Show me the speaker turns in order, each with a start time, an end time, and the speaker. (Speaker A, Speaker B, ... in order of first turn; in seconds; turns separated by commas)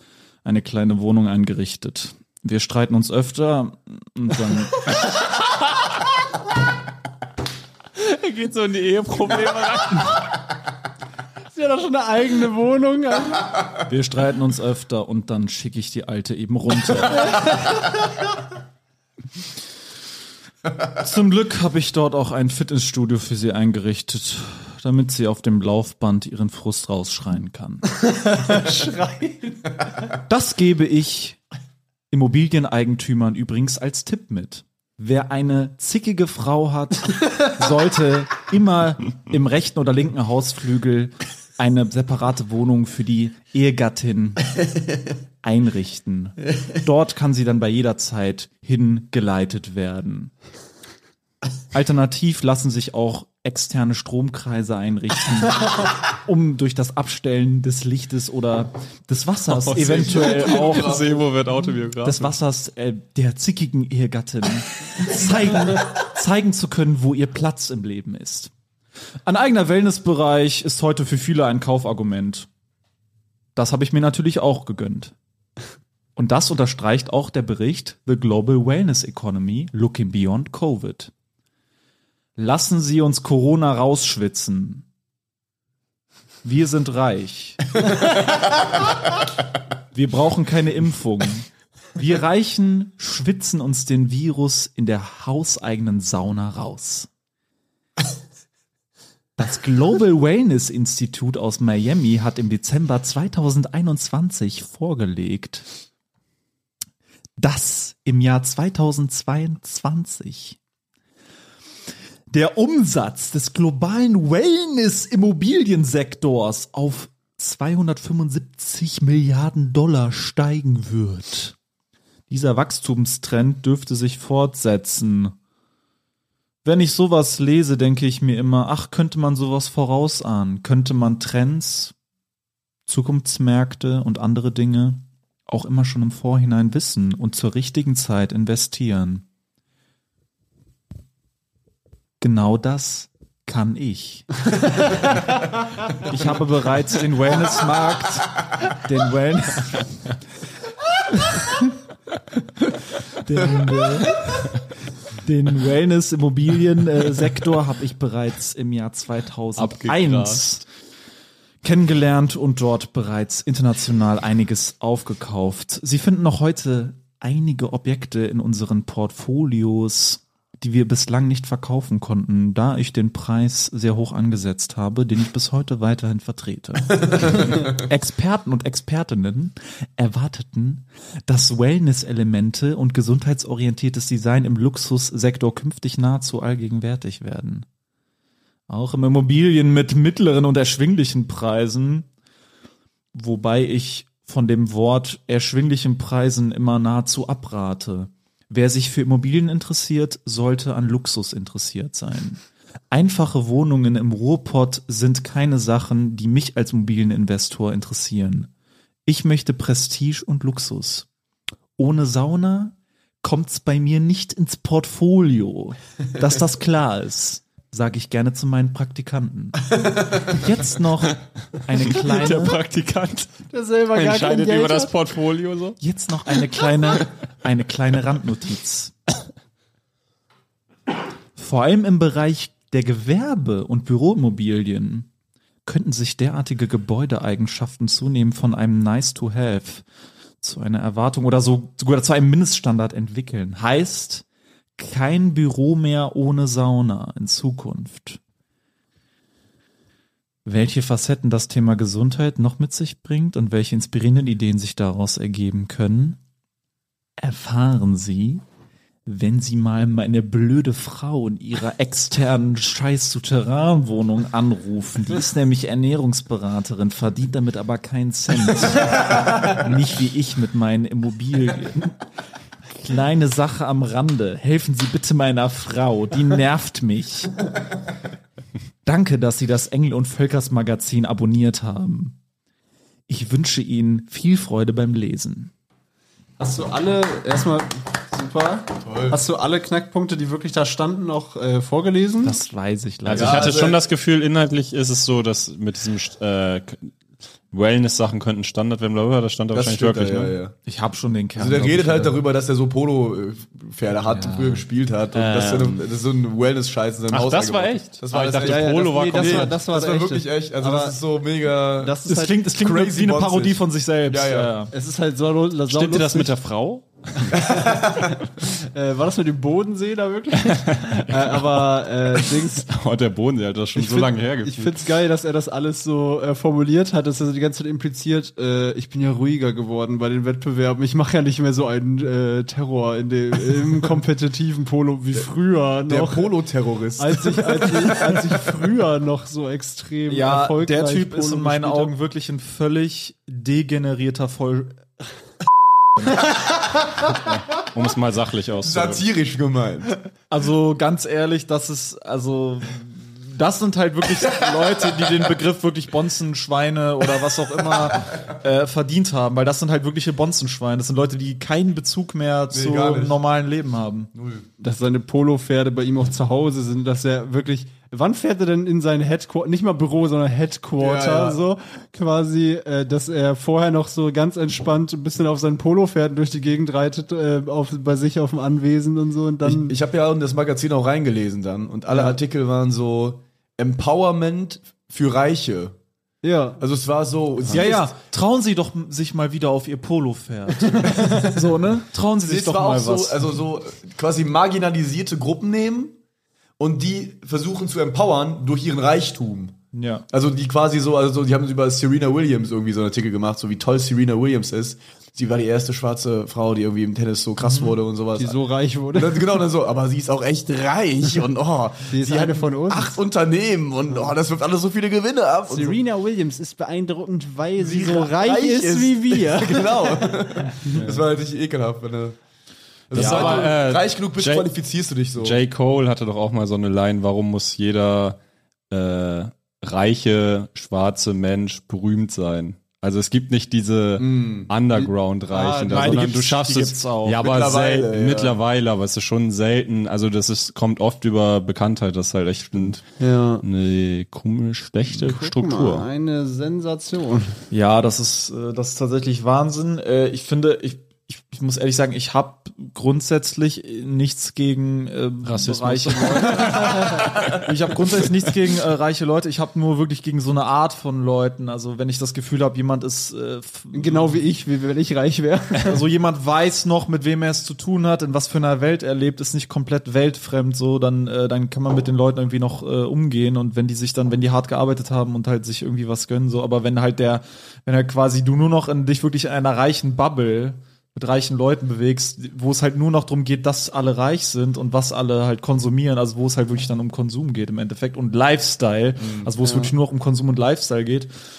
Speaker A: 0.4-4.9, Speaker B: 8.0-10.2, Speaker C: 11.5-13.5, Speaker A: 13.8-17.4, Speaker A: 20.9-27.9, Speaker C: 28.1-29.6, Speaker A: 30.2-31.4, Speaker A: 32.1-44.5, Speaker A: 45.4-50.3, Speaker A: 51.7-61.0, Speaker B: 59.5-62.3, Speaker D: 59.8-61.2, Speaker A: 62.0-68.5, Speaker A: 69.2-72.5, Speaker A: 73.5-75.1, Speaker A: 76.2-81.1, Speaker A: 82.3-84.8, Speaker A: 86.4-87.7, Speaker A: 89.9-97.1, Speaker A: 99.4-105.7, Speaker A: 107.4-110.6, Speaker A: 112.3-121.5, Speaker A: 122.3-125.3, Speaker A: 126.6-131.9, Speaker A: 132.8-139.2, Speaker A: 142.2-144.3, Speaker A: 145.9-149.9, Speaker A: 151.1-151.6, Speaker A: 153.1-154.5, Speaker A: 155.1-160.7, Speaker B: 159.6-160.5, Speaker A: 161.6-187.7, Speaker A: 188.7-192.1, Speaker A: 193.1-208.5, Speaker A: 209.1-211.1, Speaker A: 211.8-222.6, Speaker B: 221.9-225.8, Speaker C: 223.5-224.9, Speaker A: 225.8-228.9, Speaker A: 231.3-235.1, Speaker A: 235.6-239.8, Speaker A: 240.4-244.2, Speaker A: 244.8-248.2, Speaker A: 250.4-256.2, Speaker A: 257.2-258.4, Speaker A: 259.1-272.0, Speaker A: 272.7-277.4, Speaker A: 278.8-282.1, Speaker A: 283.1-285.5, Speaker C: 286.4-292.4, Speaker D: 288.8-289.2, Speaker A: 292.2-293.6, Speaker B: 293.0-296.9, Speaker D: 293.1-293.8, Speaker B: 297.5-300.4, Speaker D: 299.5-300.5, Speaker A: 300.6-302.1, Speaker D: 301.4-312.0, Speaker A: 304.1-304.6, Speaker B: 305.1-305.8, Speaker B: 307.1-309.6, Speaker C: 308.3-311.0, Speaker C: 311.8-312.4, Speaker A: 312.1-314.7, Speaker D: 312.6-314.5, Speaker C: 314.7-316.3, Speaker B: 315.7-317.3, Speaker C: 317.3-322.7, Speaker D: 317.5-318.1, Speaker B: 320.4-324.9, Speaker C: 323.8-336.3, Speaker D: 335.9-338.5, Speaker C: 337.0-341.9, Speaker A: 340.1-344.8, Speaker B: 347.3-349.1, Speaker D: 348.6-350.0, Speaker A: 350.3-364.1, Speaker D: 362.5-363.2, Speaker D: 364.1-364.4, Speaker C: 364.6-379.7, Speaker D: 370.8-371.4, Speaker D: 379.4-385.7, Speaker C: 386.2-386.6, Speaker D: 386.6-387.9, Speaker A: 387.5-393.3, Speaker D: 390.9-391.4, Speaker D: 392.2-395.9, Speaker D: 396.6-399.6, Speaker A: 399.7-400.0, Speaker D: 400.1-408.4, Speaker A: 407.4-407.8, Speaker C: 408.2-409.2, Speaker D: 408.9-415.8, Speaker C: 411.9-413.0, Speaker C: 415.5-420.9, Speaker D: 417.6-422.2, Speaker D: 422.9-425.4, Speaker B: 422.9-424.5, Speaker C: 423.0-423.4, Speaker B: 425.1-428.2, Speaker B: 428.7-442.8, Speaker D: 434.0-434.5, Speaker C: 435.3-436.1, Speaker A: 435.7-437.2, Speaker D: 437.2-438.4, Speaker C: 443.0-443.4, Speaker B: 443.4-445.9, Speaker C: 444.9-447.4, Speaker A: 447.5-464.2, Speaker B: 455.2-457.4, Speaker C: 456.3-457.1, Speaker C: 463.7-465.8, Speaker A: 465.6-491.1, Speaker D: 489.0-489.3, Speaker C: 489.4-489.7